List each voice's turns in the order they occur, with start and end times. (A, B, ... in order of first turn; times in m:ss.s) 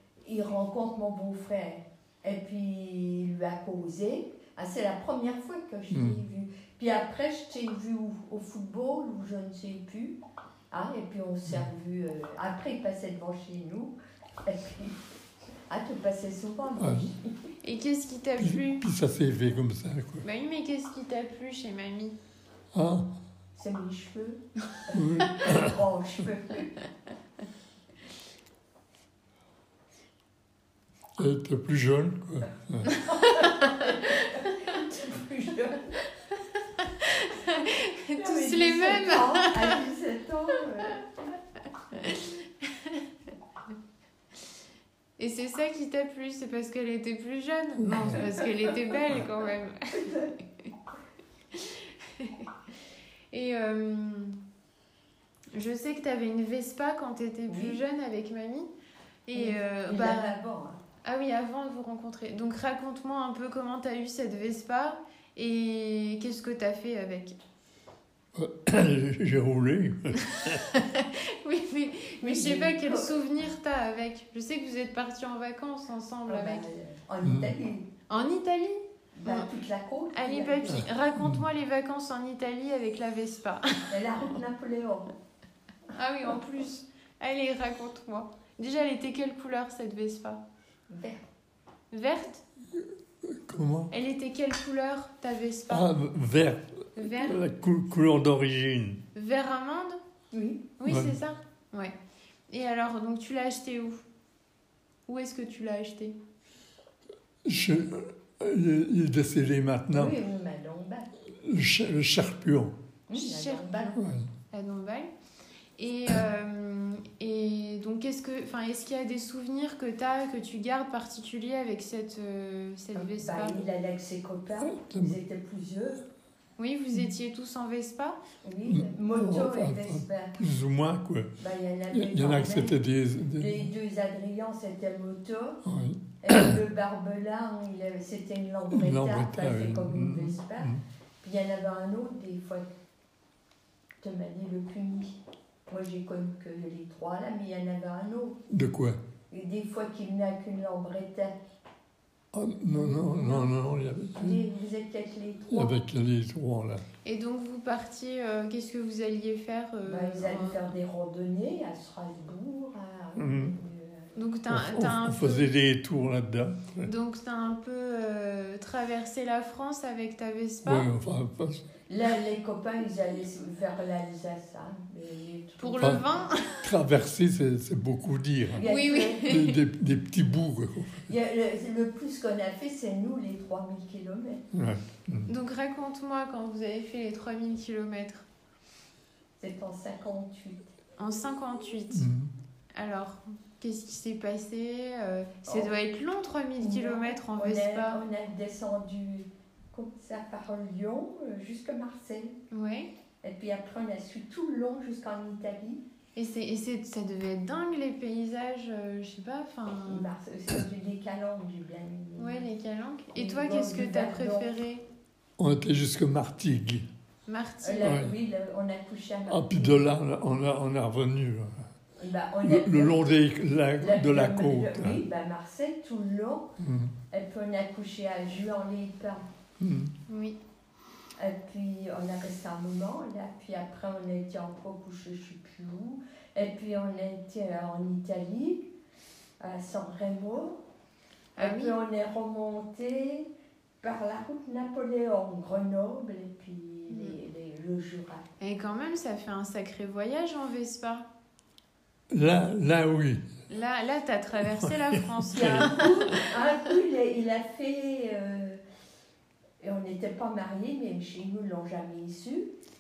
0:00.2-0:10.2 A
0:05.9-0:06.2 B
0:10.7-0:15.0 A
0:15.7-0:17.3 A
0:16.8-0:17.1 B
0:17.6-0:18.8 C
0:18.4-0:20.2 B
0:20.2-0:22.2 C
0:22.7-0:23.1 B
0:23.5-0:26.9 A
0:24.9-0:25.8 B
0:31.2-0:33.0 B
0:32.8-0:35.9 A
0:36.8-0:39.8 C
0:38.2-0:41.0 A
0:41.9-0:43.0 C
0:45.2-0:50.2 C
0:47.8-0:48.2 B
0:51.5-0:52.5 C
0:53.3-0:54.4 C
0:55.5-0:58.7 C
0:57.5-0:57.8 A
0:59.3-1:00.4 C
0:59.3-1:00.8 A
1:01.0-1:07.4 C
1:08.3-1:10.6 B
1:10.3-1:16.6 C
1:12.2-1:13.1 A
1:16.2-1:17.9 A
1:17.2-1:17.5 B
1:18.1-1:19.5 C
1:19.1-1:20.8 A
1:20.1-1:23.9 C
1:20.7-1:21.4 B
1:23.9-1:25.1 A
1:25.9-1:30.4 C
1:30.9-1:31.2 A
1:31.9-1:32.4 C
1:32.8-1:33.9 B
1:33.9-1:35.9 C
1:35.7-1:39.0 B
1:37.0-1:37.4 C
1:39.1-1:40.0 C
1:40.3-1:40.7 A
1:40.8-1:42.0 C
1:40.8-1:41.1 B
1:42.5-1:44.0 C
1:45.1-1:46.2 C
1:47.4-1:50.2 B
1:49.9-1:51.1 A
1:51.4-1:52.7 B
1:53.1-1:53.9 A
1:53.1-1:54.0 C
1:54.0-1:54.3 B
1:54.5-1:55.1 C
1:55.8-2:03.6 C
2:02.9-2:06.0 A
2:04.6-2:05.2 B
2:06.6-2:08.2 C
2:08.4-2:10.3 A
2:08.7-2:11.3 B
2:11.4-2:12.8 A
2:11.9-2:13.7 B
2:13.3-2:15.6 A
2:15.6-2:16.6 B
2:16.2-2:22.7 A
2:18.7-2:20.8 B
2:24.0-2:28.4 A
2:28.5-2:29.0 B
2:29.3-2:31.4 A
2:32.3-2:34.4 B
2:32.8-2:33.5 A
2:34.2-2:35.7 A
2:35.5-2:36.8 B
2:37.0-2:40.7 C
2:39.8-2:44.1 A
2:43.2-2:43.6 B
2:44.1-2:45.5 C
2:44.5-2:46.9 B
2:46.8-2:50.9 C
2:50.6-2:51.6 B
2:51.9-2:56.3 A
2:55.6-2:56.7 C
2:56.6-2:58.6 B
2:58.6-2:59.3 A
2:58.6-2:59.6 C
2:59.2-3:01.1 B
3:01.1-3:04.4 A
3:04.5-3:05.3 B
3:05.3-3:08.2 C
3:09.4-3:10.7 A
3:11.0-3:12.1 C
3:11.9-3:12.3 B
3:12.7-3:18.0 C
3:16.6-3:22.4 A
3:22.5-3:22.9 C
3:23.2-3:25.8 A
3:26.2-3:30.1 C
3:29.9-3:32.4 A
3:32.2-3:34.8 C
3:33.1-3:34.5 A
3:35.4-3:36.9 B
3:37.3-3:38.0 C
3:37.6-3:39.8 A
3:37.8-3:38.2 B
3:39.3-3:41.6 B
3:42.0-3:43.1 A
3:42.4-3:45.0 B
3:43.8-3:46.5 A
3:46.6-3:46.9 B
3:47.1-3:49.2 A
3:49.6-3:49.9 B
3:50.1-3:50.4 C
3:51.2-3:58.7 A
3:59.4-4:00.6 A
4:01.4-4:01.8 C
4:01.4-4:03.3 A
4:03.8-4:08.2 A
4:06.9-4:07.2 C
4:08.4-4:11.1 C
4:12.1-4:13.3 B
4:13.5-4:16.2 C
4:14.6-4:15.8 B
4:15.3-4:18.6 A
4:19.6-4:22.5 A